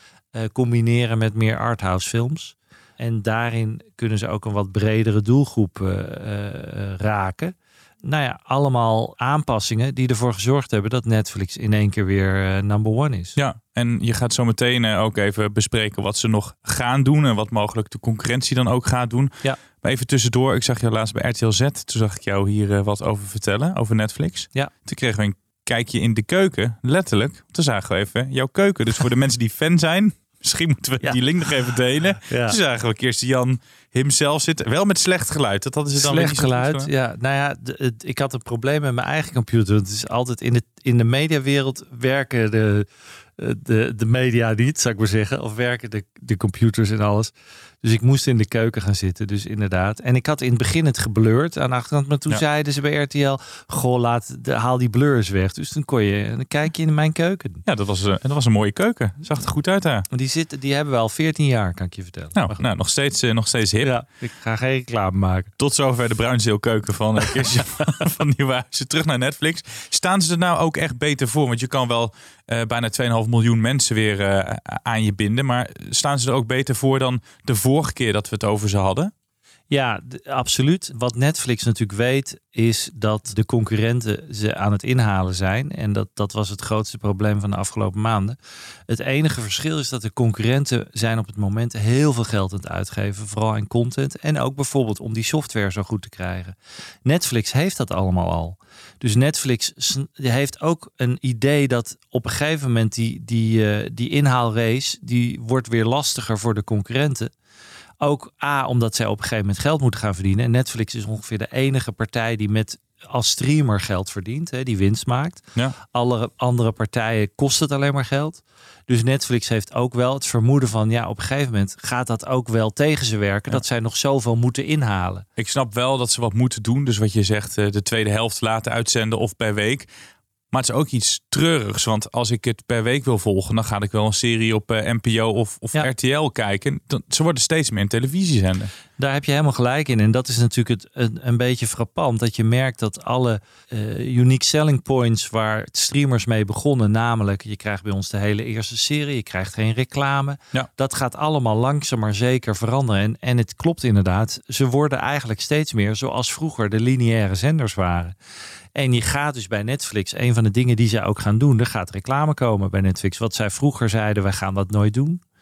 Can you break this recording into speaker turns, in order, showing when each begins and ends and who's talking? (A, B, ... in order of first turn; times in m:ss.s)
0:00.4-0:13.4 A
0:13.4-0:36.9 B
0:32.2-0:32.6 A
0:36.0-0:42.9 A
0:43.4-0:57.6 A
0:57.7-1:00.0 B
1:00.1-1:02.6 A
1:02.4-1:04.0 B
1:03.8-1:05.5 A
1:05.6-1:19.1 B
1:19.7-1:28.4 A
1:28.9-1:36.5 A
1:37.0-1:47.3 A
1:48.0-2:05.3 A
2:05.4-2:09.9 B
2:10.5-2:18.7 B
2:19.0-2:38.2 A
2:38.8-2:45.2 A